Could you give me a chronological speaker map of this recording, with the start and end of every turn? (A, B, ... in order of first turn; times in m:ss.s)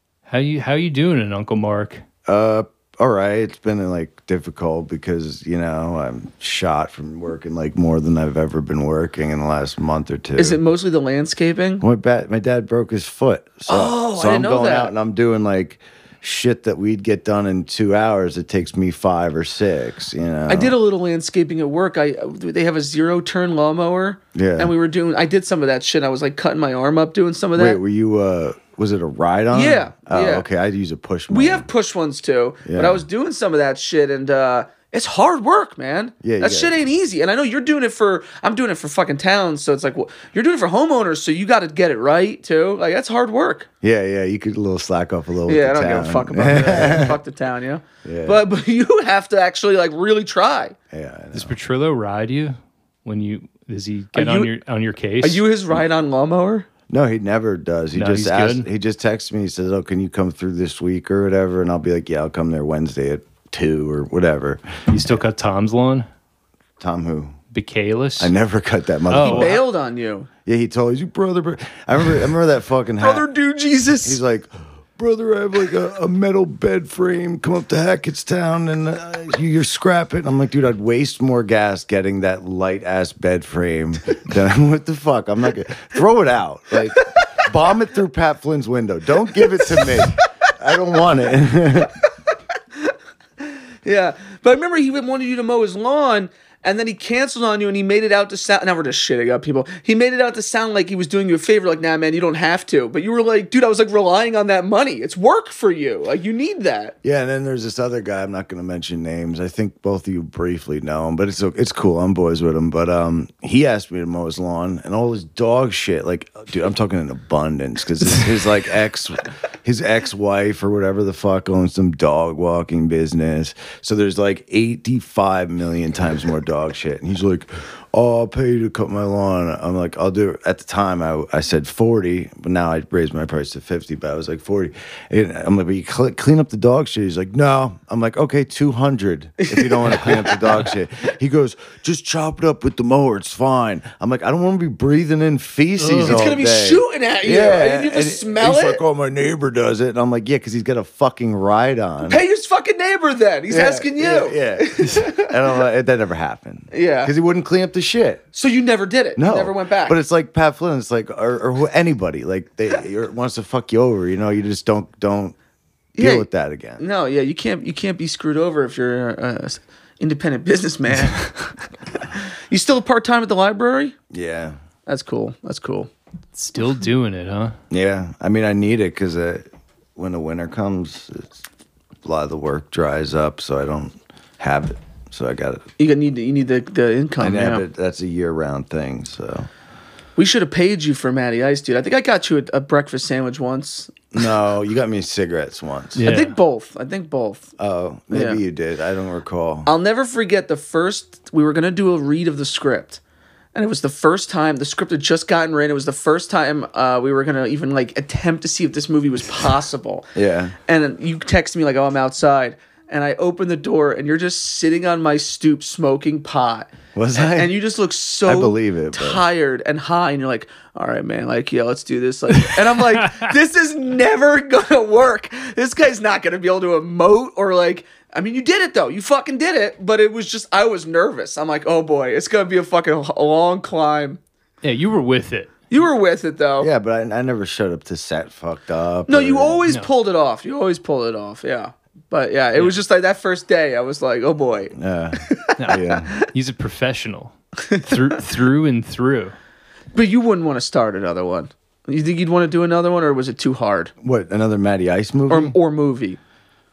0:00.3-0:02.0 A
0:02.3-0:10.6 B
0:10.4-0:11.8 C
0:11.8-0:20.7 B
0:13.7-0:14.9 C
0:20.5-0:27.8 C
0:24.3-0:24.7 B
0:27.6-0:31.7 B
0:29.5-0:30.5 C
0:31.3-0:43.7 C
0:32.6-0:33.0 B
0:36.2-0:36.8 B
0:43.8-0:47.2 B
0:45.5-0:50.8 C
0:48.0-0:48.4 B
0:50.9-0:51.6 B
0:51.3-0:55.4 A
0:54.1-0:54.5 C
0:55.2-0:56.7 C
0:56.9-1:04.8 B
0:58.0-0:58.7 A
1:04.9-1:06.1 A
1:06.8-1:07.4 B
1:07.5-1:08.3 A
1:08.2-1:09.6 B
1:09.1-1:09.6 A
1:09.2-1:10.3 C
1:10.5-1:13.3 B
1:13.0-1:14.2 C
1:14.0-1:31.9 B
1:33.8-1:47.0 C
1:47.0-2:32.2 B
2:19.4-2:20.5 C
2:25.8-2:26.2 A
2:26.0-2:28.8 C
2:32.0-2:35.3 C
2:33.5-2:38.2 B
2:36.7-2:37.1 C
2:38.3-2:40.0 C
2:39.2-2:45.4 B
2:46.0-2:46.3 C
2:46.0-2:46.8 B
2:46.8-2:54.0 C
2:54.1-2:54.6 B
2:54.9-2:55.9 C
2:56.4-2:57.6 A
2:57.7-2:59.4 B
3:00.0-3:01.4 B
3:02.0-3:05.7 B
3:05.8-3:07.6 C
3:07.2-3:09.5 B
3:10.2-3:14.0 C
3:14.1-3:16.1 B
3:16.0-3:16.4 A
3:16.0-3:17.5 C
3:17.6-3:19.7 B
3:18.1-3:18.4 C
3:19.7-3:23.0 C
3:23.6-3:30.1 C
3:30.2-3:30.5 B
3:30.7-3:54.2 C
3:37.0-3:37.6 B
3:38.3-3:39.2 B
3:42.5-3:43.3 A
3:54.6-3:55.7 A
3:55.7-3:56.7 C
3:56.6-3:59.6 B
3:59.1-4:06.2 C
4:04.7-4:06.1 B
4:05.6-4:09.4 A
4:07.7-4:08.1 C
4:09.9-4:13.9 C
4:14.0-4:15.6 B
4:15.3-4:16.2 C